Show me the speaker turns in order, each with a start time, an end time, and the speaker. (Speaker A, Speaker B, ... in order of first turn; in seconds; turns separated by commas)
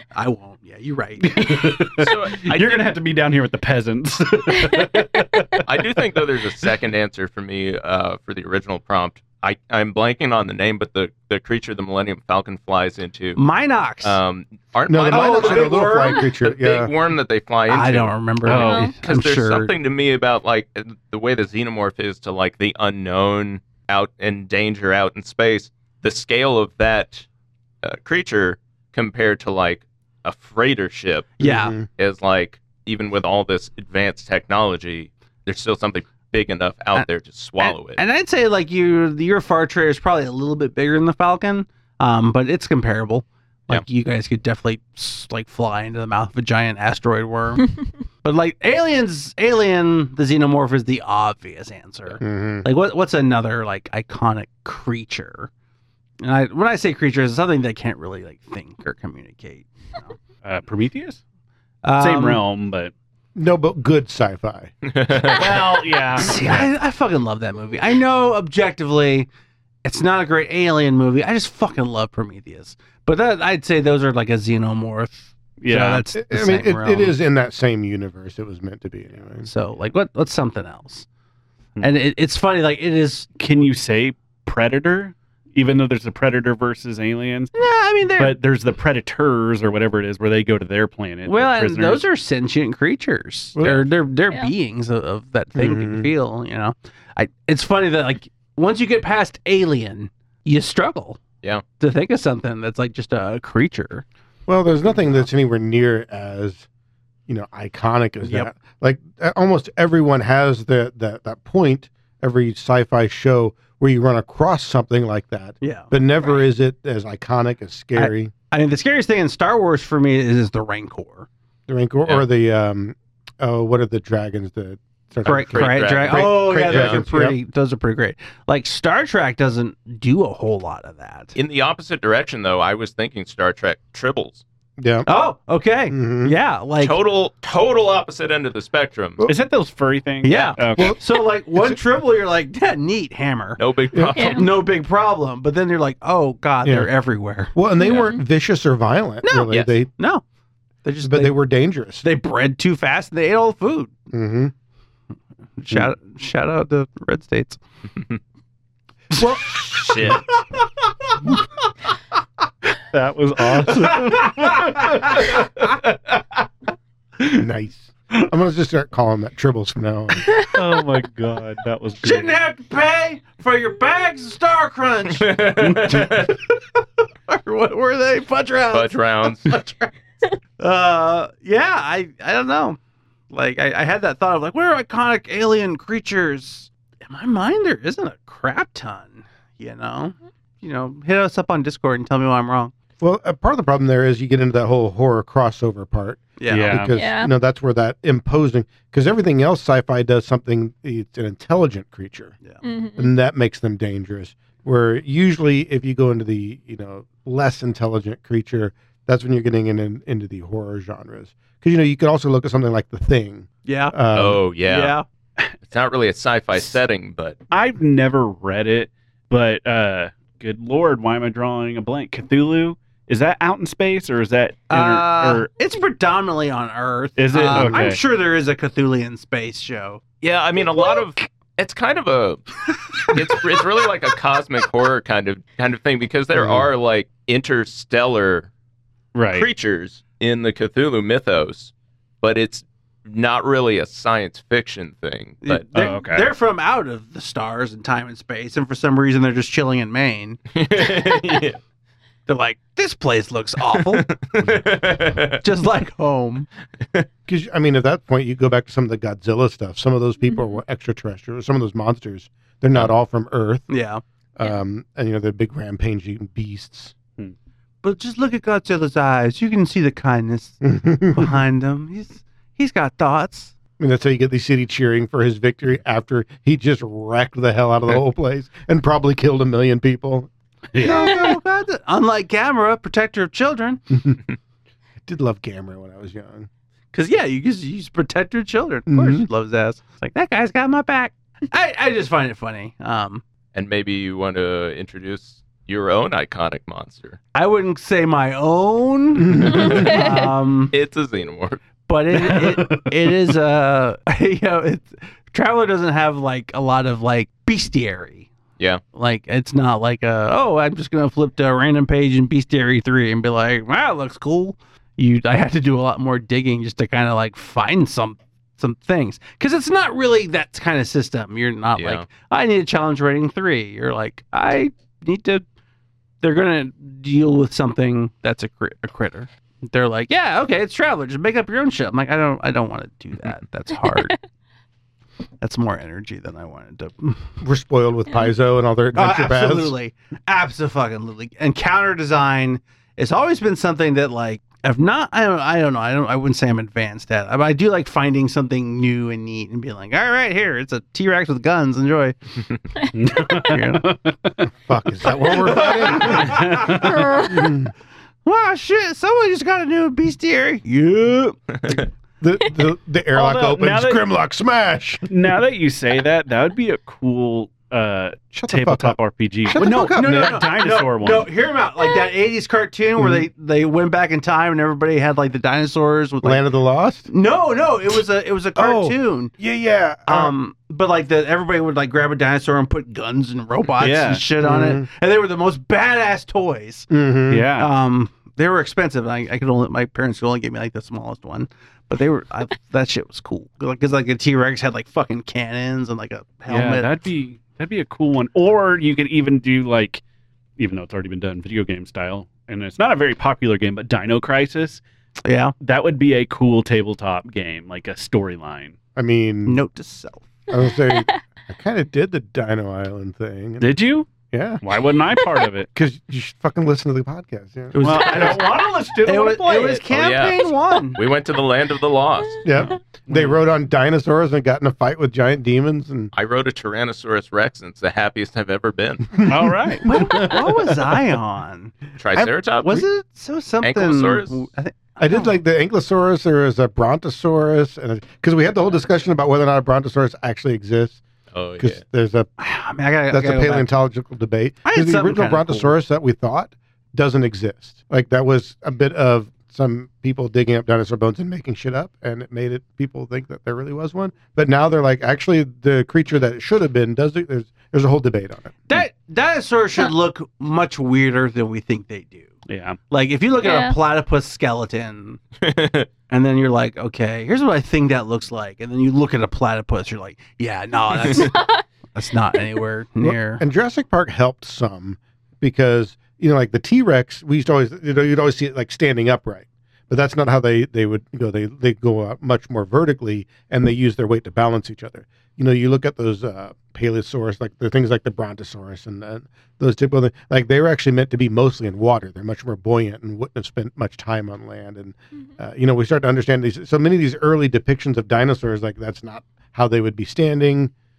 Speaker A: 0.1-1.7, Speaker B: 1.2-5.8, Speaker C: 1.9-3.0, Speaker C: 5.5-13.4, Speaker A: 13.3-14.2, Speaker C: 14.0-18.1, Speaker D: 14.9-16.9, Speaker A: 15.1-16.2, Speaker A: 17.7-19.7, Speaker B: 18.4-18.9, Speaker E: 18.5-18.9, Speaker C: 19.0-27.2, Speaker C: 27.8-38.0, Speaker A: 31.4-31.7, Speaker D: 31.4-31.9, Speaker A: 37.6-47.7, Speaker A: 48.2-55.5, Speaker D: 52.2-52.7, Speaker A: 56.2-60.1, Speaker B: 60.4-61.2, Speaker A: 61.8-62.4, Speaker B: 62.0-62.9, Speaker D: 63.3-64.7, Speaker C: 64.8-65.6, Speaker B: 65.3-66.7, Speaker A: 66.1-69.3, Speaker A: 69.8-77.2, Speaker B: 75.6-76.0, Speaker D: 76.1-79.5, Speaker A: 79.4-81.1, Speaker A: 81.8-83.3, Speaker B: 83.4-87.5, Speaker A: 87.5-88.4, Speaker B: 88.2-92.0, Speaker A: 91.2-101.2, Speaker D: 93.5-93.9, Speaker D: 95.5-96.1, Speaker A: 101.8-104.0, Speaker D: 104.5-106.7, Speaker A: 104.9-105.2, Speaker D: 107.3-118.3, Speaker A: 108.2-108.5, Speaker A: 115.6-116.4, Speaker A: 118.0-121.3, Speaker D: 121.7-127.3, Speaker A: 125.2-131.3, Speaker C: 125.2-127.0, Speaker C: 131.3-134.4, Speaker D: 134.8-135.1, Speaker A: 135.1-137.0, Speaker D: 135.9-136.3, Speaker C: 136.8-139.2, Speaker B: 139.2-140.9, Speaker A: 140.2-143.6, Speaker D: 140.7-141.8, Speaker C: 143.6-144.5, Speaker D: 143.9-144.2, Speaker E: 144.2-144.5, Speaker A: 144.2-147.6, Speaker D: 146.6-146.9, Speaker D: 147.5-149.9, Speaker C: 147.8-148.1, Speaker E: 147.9-148.2, Speaker A: 149.2-150.2, Speaker A: 150.8-151.4, Speaker D: 151.0-152.0, Speaker A: 152.0-153.9, Speaker D: 154.1-154.5, Speaker A: 155.6-157.6, Speaker D: 159.1-160.2, Speaker C: 159.7-160.2, Speaker A: 159.7-160.2, Speaker B: 162.9-166.2, Speaker A: 163.6-165.2, Speaker D: 167.3-170.3, Speaker B: 170.5-172.3, Speaker A: 172.0-179.9, Speaker C: 175.1-176.4, Speaker C: 178.7-179.6, Speaker A: 180.6-182.8, Speaker A: 183.3-192.7, Speaker D: 193.0-202.3, Speaker A: 196.4-196.8, Speaker B: 196.5-196.9, Speaker E: 196.9-197.3, Speaker E: 202.6-203.1, Speaker D: 203.0-214.4, Speaker A: 213.7-213.9, Speaker C: 214.1-214.9, Speaker A: 214.6-215.0, Speaker C: 215.6-217.4, Speaker B: 217.5-225.5, Speaker A: 224.7-230.0, Speaker B: 227.2-228.0, Speaker D: 227.5-227.9, Speaker C: 230.2-238.5, Speaker D: 236.3-236.7, Speaker B: 239.1-239.5, Speaker C: 239.3-245.7, Speaker A: 245.4-251.3, Speaker B: 245.7-246.3, Speaker C: 250.5-251.6, Speaker A: 252.3-254.1, Speaker C: 253.7-255.4, Speaker A: 255.4-256.5, Speaker D: 257.3-263.7, Speaker A: 263.7-264.0, Speaker D: 264.4-266.9, Speaker A: 267.8-273.5, Speaker D: 270.6-271.4, Speaker D: 273.8-280.3, Speaker B: 280.7-281.2, Speaker A: 280.8-283.8, Speaker D: 283.9-284.2, Speaker D: 285.1-286.5, Speaker A: 286.9-293.2, Speaker D: 288.9-289.2, Speaker C: 293.5-297.2, Speaker A: 297.3-300.7, Speaker D: 299.3-299.7, Speaker C: 299.4-300.2, Speaker E: 299.5-300.2, Speaker C: 300.7-301.6, Speaker A: 301.9-308.3, Speaker B: 302.1-302.9, Speaker A: 308.9-325.4, Speaker C: 321.8-322.1, Speaker A: 326.2-334.2, Speaker A: 335.4-337.3, Speaker D: 337.4-339.7, Speaker A: 338.9-352.1, Speaker B: 352.9-354.5, Speaker A: 353.1-353.9, Speaker D: 354.7-357.7, Speaker A: 355.2-357.4, Speaker B: 356.0-357.1, Speaker A: 358.2-361.8, Speaker D: 362.2-365.0, Speaker B: 363.1-364.0, Speaker B: 365.1-371.3, Speaker D: 368.3-370.4, Speaker A: 369.8-376.4, Speaker D: 373.0-373.2, Speaker D: 376.2-377.1, Speaker A: 377.1-379.3, Speaker D: 378.6-380.3, Speaker A: 380.1-386.9, Speaker B: 383.8-384.2, Speaker D: 384.4-384.9, Speaker D: 386.9-387.5, Speaker B: 387.3-387.7, Speaker A: 387.6-396.9, Speaker B: 396.5-400.0, Speaker B: 400.6-404.8, Speaker A: 405.2-405.5, Speaker B: 405.6-408.8, Speaker D: 408.9-409.6, Speaker A: 409.4-410.3, Speaker D: 410.5-413.8, Speaker E: 410.9-411.2, Speaker B: 413.6-414.1, Speaker D: 414.3-414.6, Speaker B: 414.6-415.7, Speaker D: 415.7-418.4, Speaker A: 417.7-421.0, Speaker B: 417.8-419.9, Speaker C: 419.9-422.4, Speaker D: 422.4-426.1, Speaker B: 423.1-423.4, Speaker C: 426.1-429.3, Speaker D: 429.2-429.5, Speaker B: 429.2-431.0, Speaker A: 429.8-435.4, Speaker C: 432.0-432.9, Speaker C: 433.6-434.4, Speaker D: 435.0-441.0, Speaker C: 441.3-441.8, Speaker D: 441.6-442.3, Speaker A: 442.4-443.7, Speaker D: 443.1-458.6, Speaker A: 444.6-445.7, Speaker A: 458.7-462.3, Speaker B: 462.5-462.8, Speaker A: 462.9-465.2, Speaker E: 463.4-463.8, Speaker C: 465.4-465.9, Speaker A: 466.1-473.4, Speaker E: 471.1-471.6, Speaker D: 473.0-500.7